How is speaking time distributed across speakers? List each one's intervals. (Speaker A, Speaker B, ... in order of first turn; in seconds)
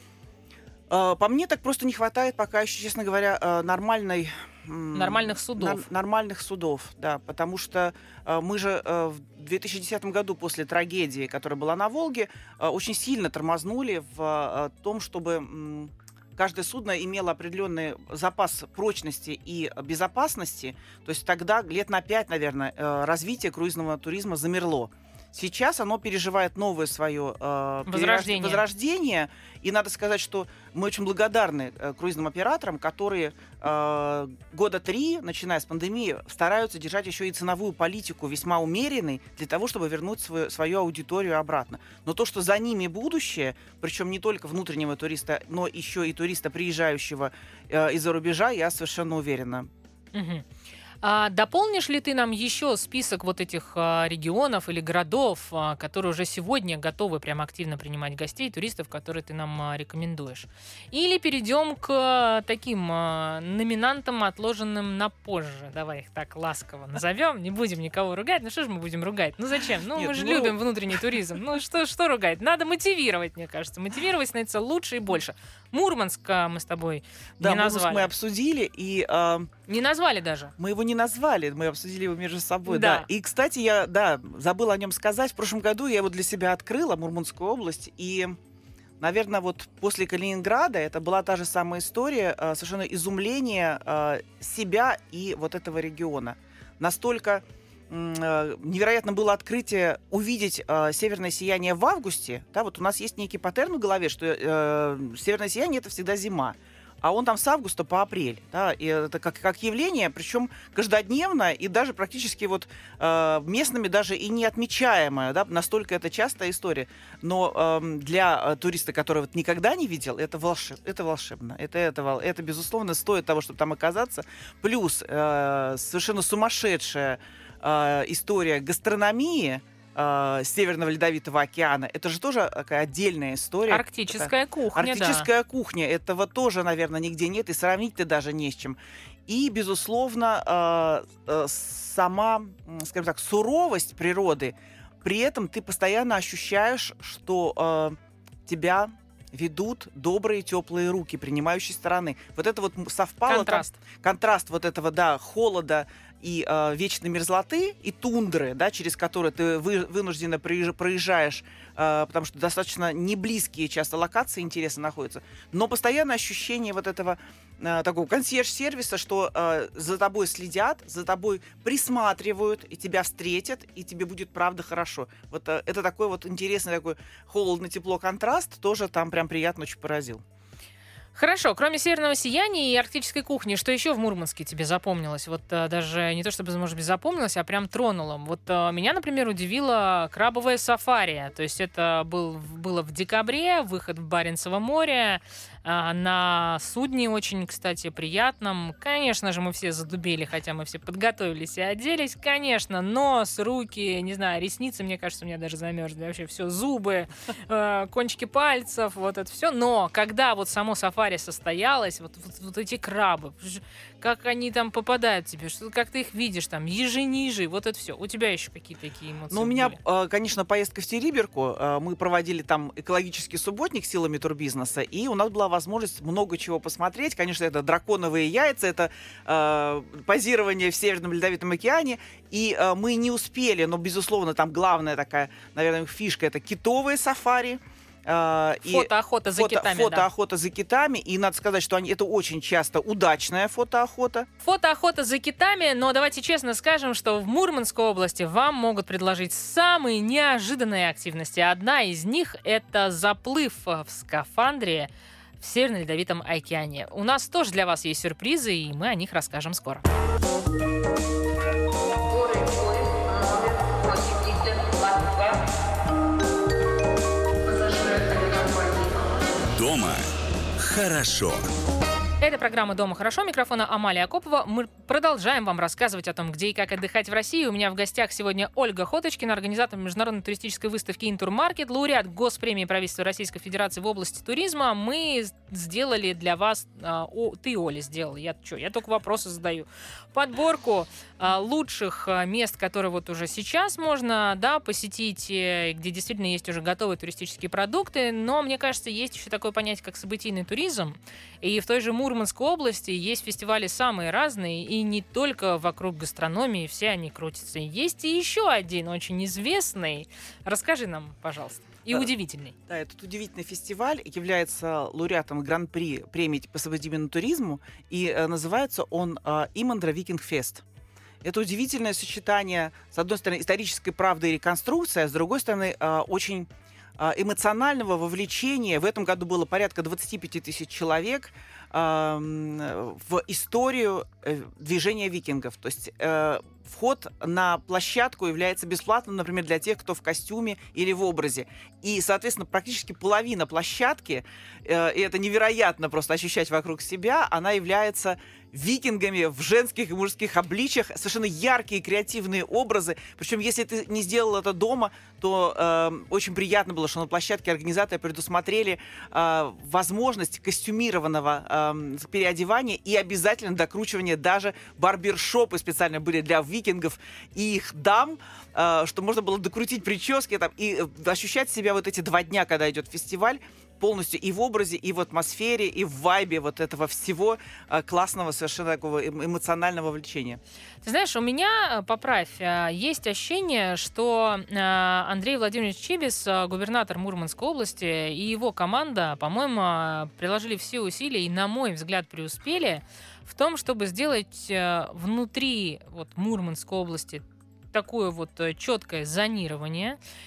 Speaker A: 0.9-49.7, 69.9-71.2, 77.4-79.5, 80.6-88.4, 89.0-180.2, 219.3-244.3, 312.7-320.6, 321.2-380.4
Speaker B: 4.9-5.9, 27.9-28.6, 50.1-50.5, 51.0-78.1, 79.7-80.5, 82.7-83.1, 133.7-135.3, 153.3-153.8, 181.2-219.8, 238.6-240.1, 244.4-259.9, 272.2-312.6, 380.8-400.0
Speaker C: 262.0-265.4, 267.4-269.4
Speaker D: 269.5-271.5